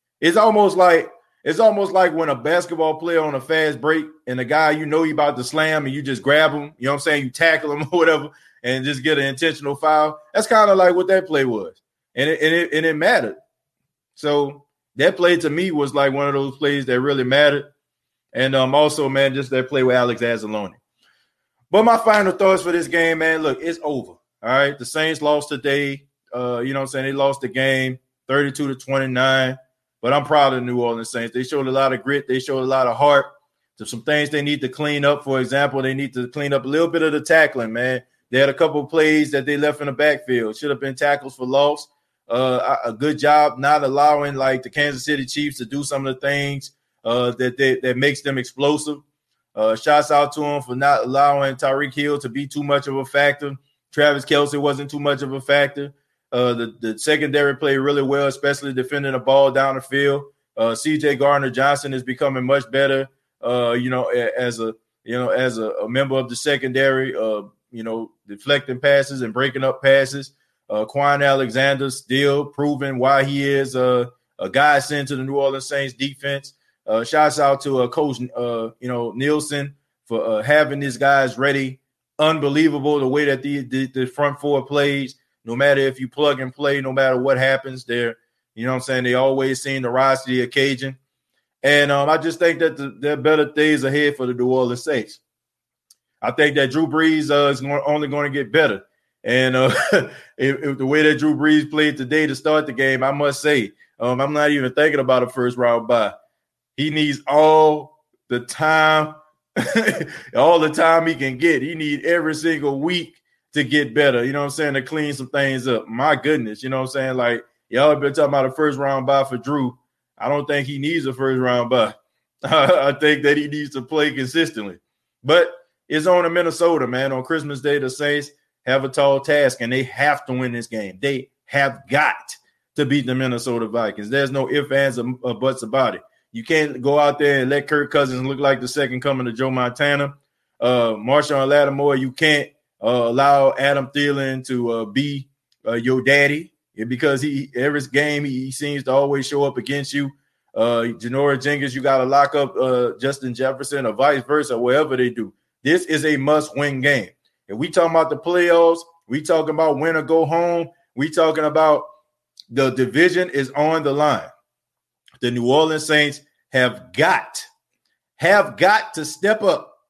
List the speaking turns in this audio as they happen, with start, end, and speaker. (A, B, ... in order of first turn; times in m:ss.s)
0:00.2-0:13.4 A
0:14.2-0:17.7 A
0:18.3-0:20.8 A
0:21.7-0:49.0 A
0:49.5-1:31.0 A
1:31.6-1:35.2 A
1:36.2-1:46.1 A
1:46.8-2:41.9 A
2:42.5-2:44.3 A
2:45.2-2:47.5 A
2:48.2-2:49.7 A